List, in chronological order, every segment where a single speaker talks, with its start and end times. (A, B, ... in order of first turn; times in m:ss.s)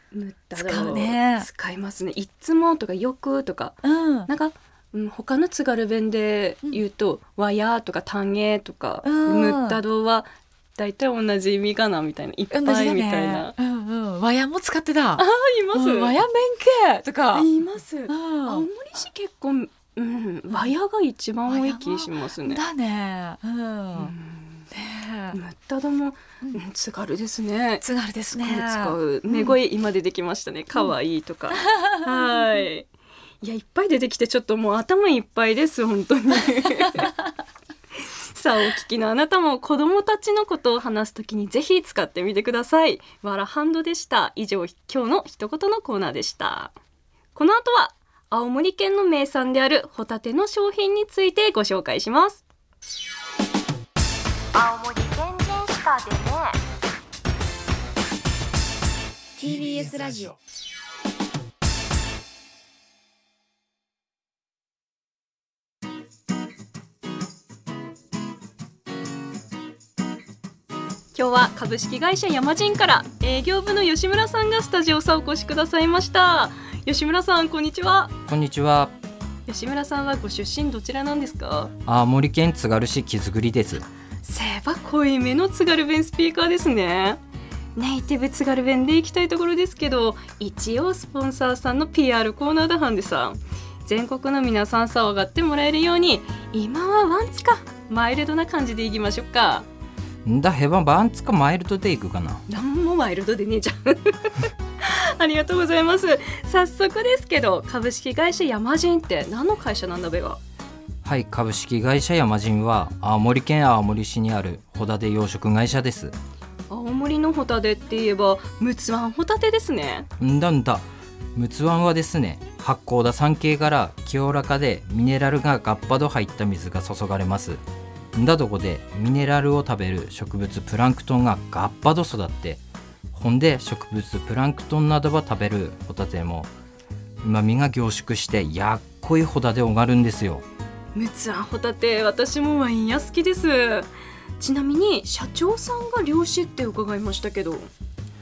0:00.1-0:13.6 A
0:00.6-0:01.5 B
0:03.8-0:04.3 B
0:09.0-0:09.8 B
0:12.5-0:17.5 B
0:15.2-0:16.2 A
0:17.3-0:22.6 A
0:18.1-0:18.7 B
0:21.5-0:24.1 B
0:24.0-0:24.7 A
0:24.7-0:25.4 B
0:25.3-0:32.9 A
0:27.8-0:29.6 B
0:31.6-0:32.7 B
0:33.4-0:37.1 A
0:38.3-0:46.8 A
0:47.4-0:52.4 A
0:54.5-0:56.6 A
0:59.4-1:00.4 B
1:11.1-1:18.1 A
1:18.3-1:18.9 C
1:19.5-1:21.7 A
1:21.9-1:23.8 C
1:24.2-1:27.2 A
1:27.8-1:39.7 A
1:40.2-1:42.4 C
1:42.5-1:50.4 A
1:51.0-1:56.1 C
1:56.7-2:00.1 A
2:00.2-2:07.6 C
2:08.2-2:12.6 C
2:13.1-2:16.5 C
2:17.2-2:20.4 C
2:21.0-2:23.9 A
2:24.4-2:27.7 A